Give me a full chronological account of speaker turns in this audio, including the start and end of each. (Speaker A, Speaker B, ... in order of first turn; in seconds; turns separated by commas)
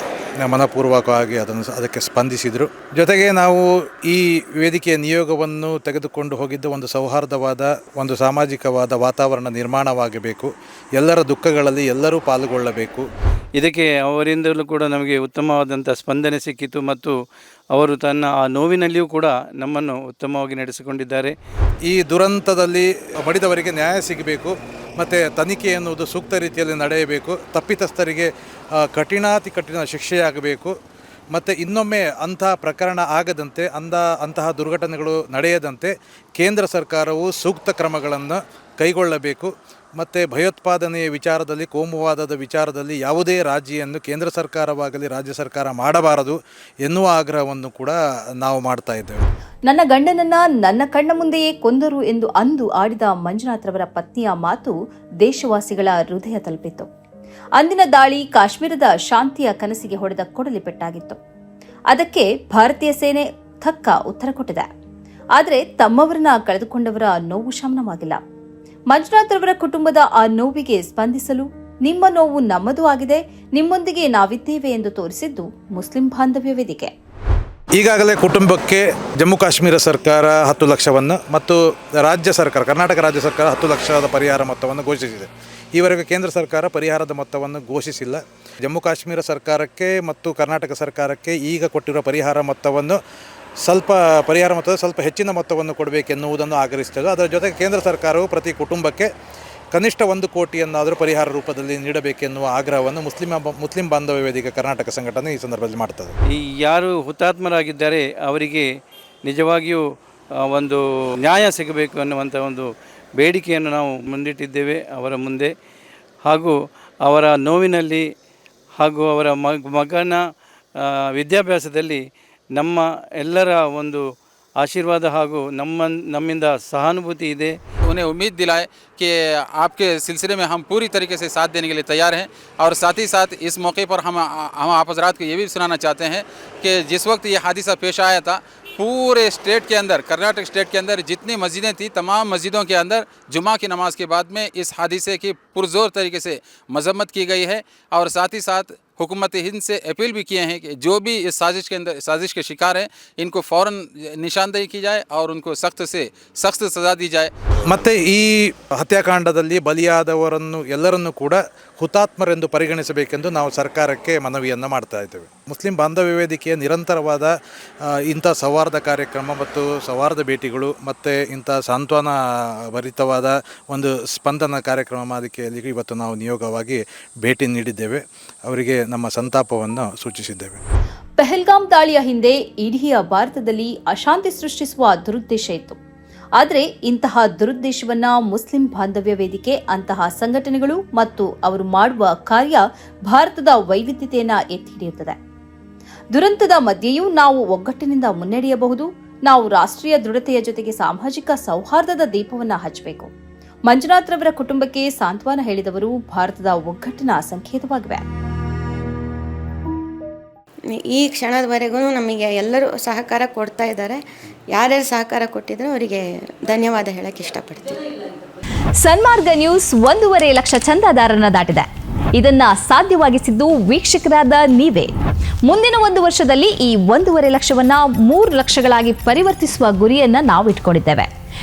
Speaker A: 0.4-13.1, Speaker B: 13.6-17.2, Speaker B: 17.7-21.4, Speaker A: 21.9-30.7, Speaker A: 31.3-49.2, Speaker C: 49.7-56.9, Speaker C: 57.6-61.2, Speaker C: 61.9-64.7, Speaker C: 65.4-68.2, Speaker C: 68.9-76.9, Speaker A: 77.8-93.0, Speaker A: 93.6-99.1, Speaker A: 99.7-106.1, Speaker B: 106.3-108.7, Speaker B: 109.2-115.5, Speaker B: 116.2-118.1, Speaker B: 118.8-120.2, Speaker B: 120.8-124.0, Speaker B: 124.6-127.6, Speaker D: 127.8-157.3, Speaker A: 157.7-167.3, Speaker A: 168.1-172.1, Speaker A: 172.7-180.6, Speaker C: 181.2-185.8, Speaker C: 186.4-195.2, Speaker C: 196.1-203.1, Speaker C: 203.7-208.0, Speaker E: 210.7-217.9, Speaker C: 218.8-224.9, Speaker C: 225.4-231.1